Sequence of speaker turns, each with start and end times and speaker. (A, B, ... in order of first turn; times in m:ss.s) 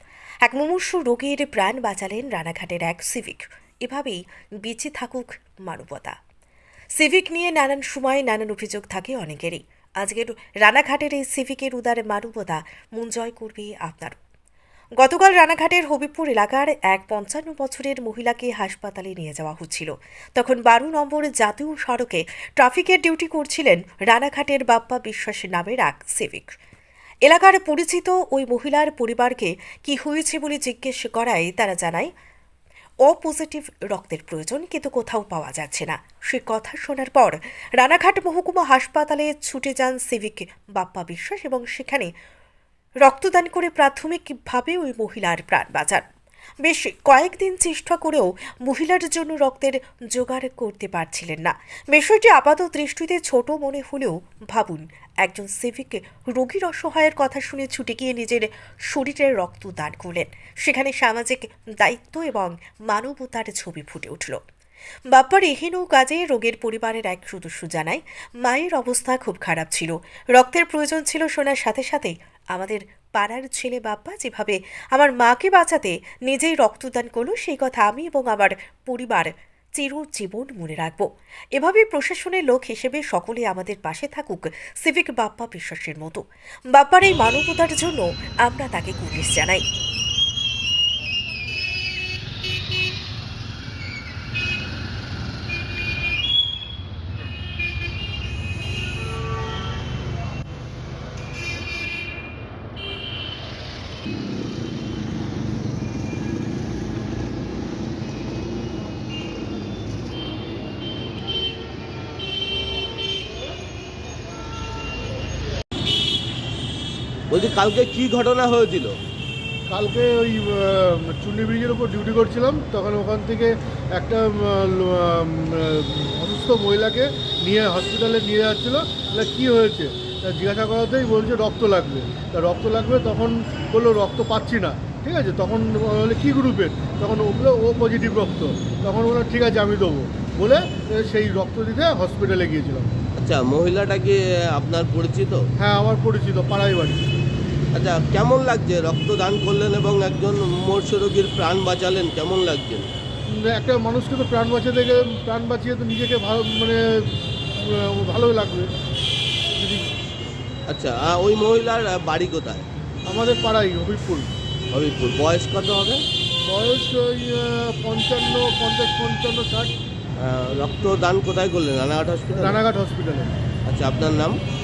0:00.4-0:06.2 A
0:06.9-0:14.2 A
0:15.0-0:26.5 A
0:27.2-0:32.1 A
0:33.0-0:42.1 A
0:43.0-0:46.0 A
0:46.6-1:04.4 A
1:05.1-1:29.6 A
1:57.3-1:58.9 B
1:59.7-2:23.0 C
2:23.2-2:25.4 B
2:25.6-2:27.0 C
2:27.7-2:32.9 B
2:33.3-2:38.7 C
2:39.6-2:39.9 C
2:40.7-2:42.6 B
2:43.1-2:44.3 C
2:44.7-2:46.0 B
2:46.4-2:49.7 C
2:50.2-2:52.6 B
2:52.3-2:53.3 C
2:53.6-2:54.4 B